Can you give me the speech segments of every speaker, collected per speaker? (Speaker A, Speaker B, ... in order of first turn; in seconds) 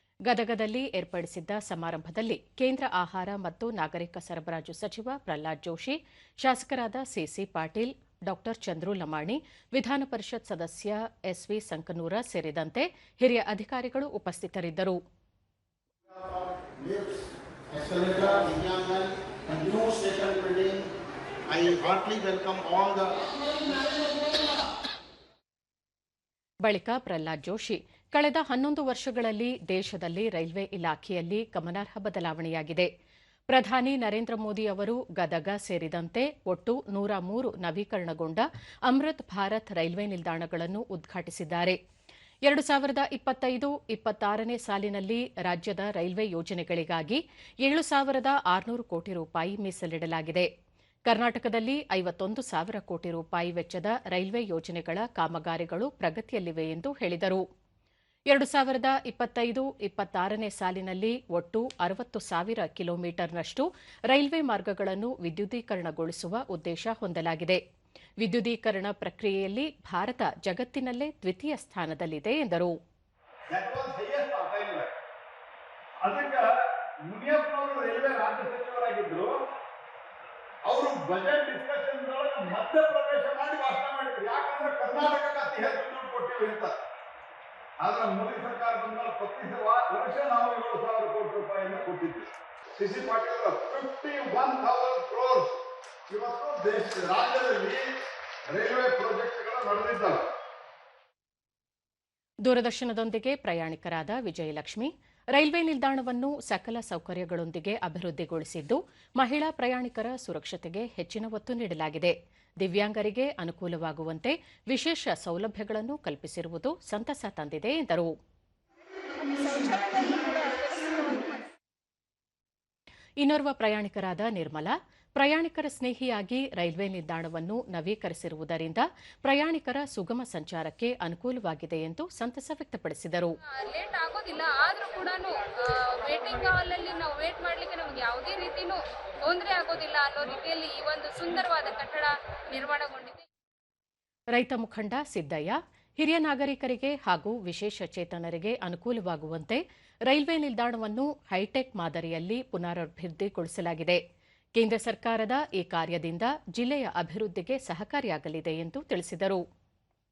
Speaker A: 0.3-15.0, 26.6-32.9, 33.5-41.8, 42.5-50.5, 51.1-57.4, 58.3-67.6, 68.2-72.7, 102.4-118.1, 123.2-133.4, 144.3-154.0, 154.6-159.4
Speaker B: 16.1-20.9, 21.5-23.2
Speaker C: 73.5-74.9, 76.0-76.5, 77.0-79.3, 80.7-86.7, 87.8-95.5, 96.1-97.9, 98.5-100.2
Speaker D: 119.3-121.3, 133.6-143.2